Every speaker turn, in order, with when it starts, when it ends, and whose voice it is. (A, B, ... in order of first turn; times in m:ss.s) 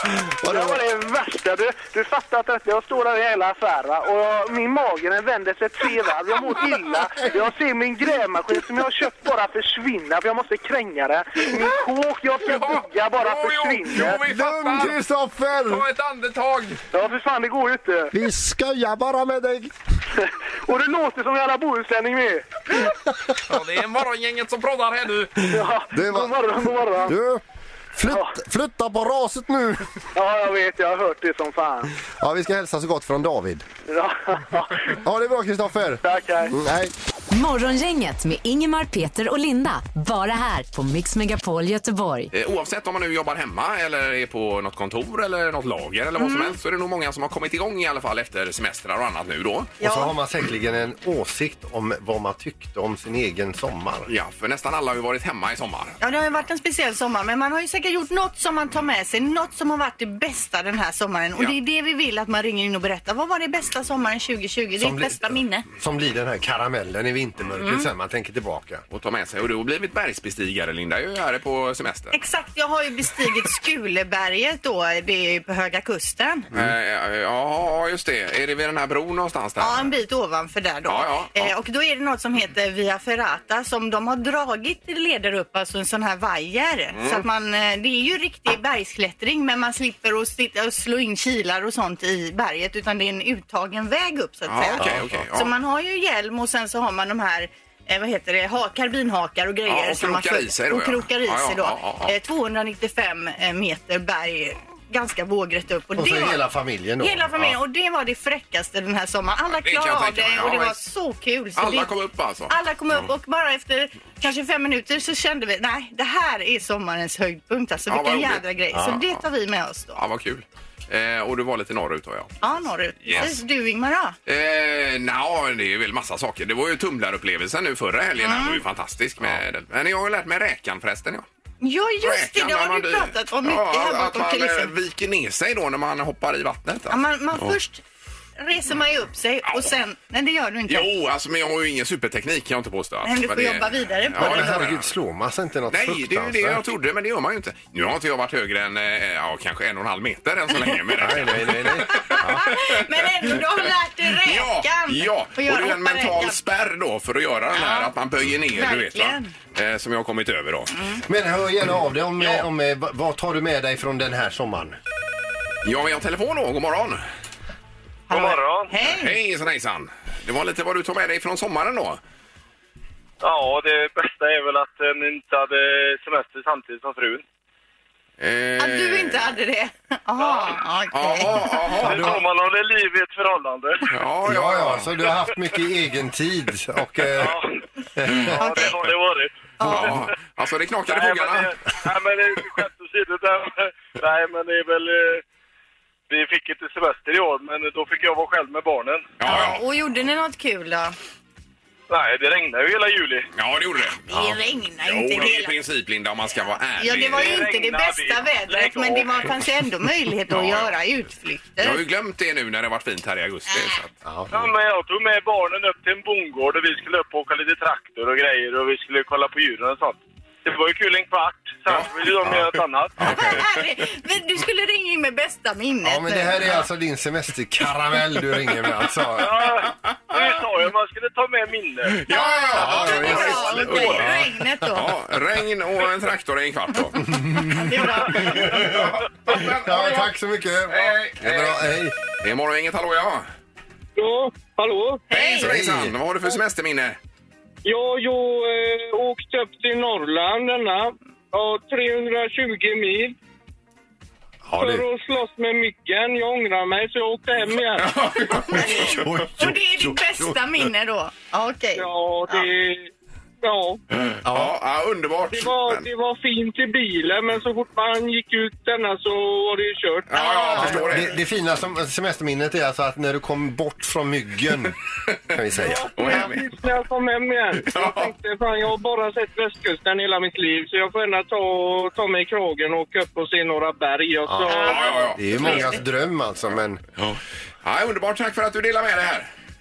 0:00.3-0:00.8 A
0:00.4-0:14.2 B
0:12.4-0:15.0 C
0:14.0-0:15.8 A
0:15.7-0:16.8 C
0:16.9-0:18.1 B
0:18.1-0:19.7 A
0:20.2-0:22.5 B
0:23.4-0:25.6 C
0:25.5-0:27.2 B
0:25.9-0:27.4 A
0:27.9-0:29.9 A
0:28.1-0:28.3 B
0:30.1-0:31.9 B
0:32.2-0:33.6 A
0:33.9-0:34.9 B
0:34.9-0:36.9 A
0:36.0-0:36.5 B
0:37.3-0:42.3 D
0:42.3-0:49.8 C
0:46.2-0:46.6 E
0:49.8-0:50.1 E
0:49.8-0:54.1 A
0:54.1-0:56.0 C
0:56.0-1:05.7 E
1:04.8-1:08.8 A
1:07.6-1:07.9 E
1:08.9-1:12.1 C
1:12.1-1:16.5 E
1:16.5-1:19.9 C
1:19.6-1:46.4 E
1:20.9-1:21.5 C
1:26.9-1:27.2 C
1:34.5-1:35.5 C
1:34.8-1:35.2 A
1:39.7-1:42.1 C
1:46.0-1:47.6 A
1:47.0-1:51.9 E
1:49.5-1:50.8 C
1:51.6-1:52.5 C
1:52.5-2:00.0 E
1:57.9-1:59.1 C
1:58.7-1:59.0 A
2:00.0-2:02.5 C
2:02.4-2:04.2 E
2:03.0-2:03.4 C
2:04.3-2:11.3 C
2:08.2-2:08.6 E
2:11.6-2:14.7 E
2:12.0-2:17.6 C
2:16.9-2:17.8 E
2:18.4-2:20.9 E
2:19.5-2:19.7 C
2:20.7-2:24.9 C
2:23.0-2:24.7 E
2:24.2-2:26.6 A
2:25.7-2:32.8 C
2:31.0-2:32.6 A
2:31.9-2:36.4 E
2:34.2-2:40.8 C
2:37.5-2:37.9 E
2:38.5-2:39.3 E
2:40.7-2:41.0 E
2:41.1-2:44.8 A
2:45.6-2:47.0 C
2:48.1-2:49.2 E
2:48.1-2:48.7 F
2:48.8-2:52.0 C
2:53.2-2:57.2 F
2:58.2-2:59.3 C
2:58.6-3:01.6 E
3:00.9-3:02.2 C
3:01.8-3:03.8 F
3:01.8-3:02.2 A
3:03.9-3:05.0 C
3:04.2-3:07.4 A
3:07.1-3:07.5 F
3:08.0-3:08.4 A
3:08.1-3:10.1 F
3:08.3-3:08.8 E
3:09.6-3:09.9 E
3:09.6-3:11.5 C
3:10.8-3:15.2 F
3:16.1-3:19.0 F
3:19.2-3:19.6 C
3:19.2-3:21.0 E
3:21.9-3:23.3 F
3:23.4-3:24.0 C
3:24.1-3:25.6 E
3:24.8-3:27.4 C
3:26.8-3:31.8 E
3:27.1-3:29.4 F
3:30.3-3:30.7 C
3:31.6-3:33.9 C
3:33.5-3:33.8 E
3:34.0-3:34.3 A
3:34.3-3:42.9 F
3:43.0-3:43.4 A
3:43.0-3:46.6 E
3:43.0-3:43.5 C
3:45.8-3:49.5 A
3:49.2-3:52.0 F
3:52.0-3:57.2 C
3:52.1-3:54.9 E
3:52.5-3:54.2 A
3:53.1-3:54.0 F
3:57.1-4:02.0 A
3:57.4-3:58.7 E
3:58.2-4:00.1 C
4:00.7-4:03.3 C
4:04.0-4:05.0 G
4:05.1-4:05.6 E
4:05.1-4:07.0 C
4:05.4-4:06.0 A
4:07.6-4:13.2 G
4:14.4-4:14.9 A
4:14.6-4:18.0 G
4:17.8-4:18.9 C
4:18.3-4:22.5 E
4:18.5-4:20.6 A
4:21.8-4:22.9 G
4:23.4-4:23.8 G
4:23.9-4:25.9 C
4:24.2-4:24.5 A
4:25.3-4:30.2 G
4:30.1-4:31.2 C
4:30.2-4:30.9 E
4:30.5-4:34.8 A
4:35.3-4:36.3 A
4:35.7-4:45.1 G
4:36.0-4:36.5 C
4:37.5-4:38.1 C
4:44.2-4:46.8 A
4:44.5-4:45.8 E
4:44.6-4:45.7 C
4:47.0-4:49.3 C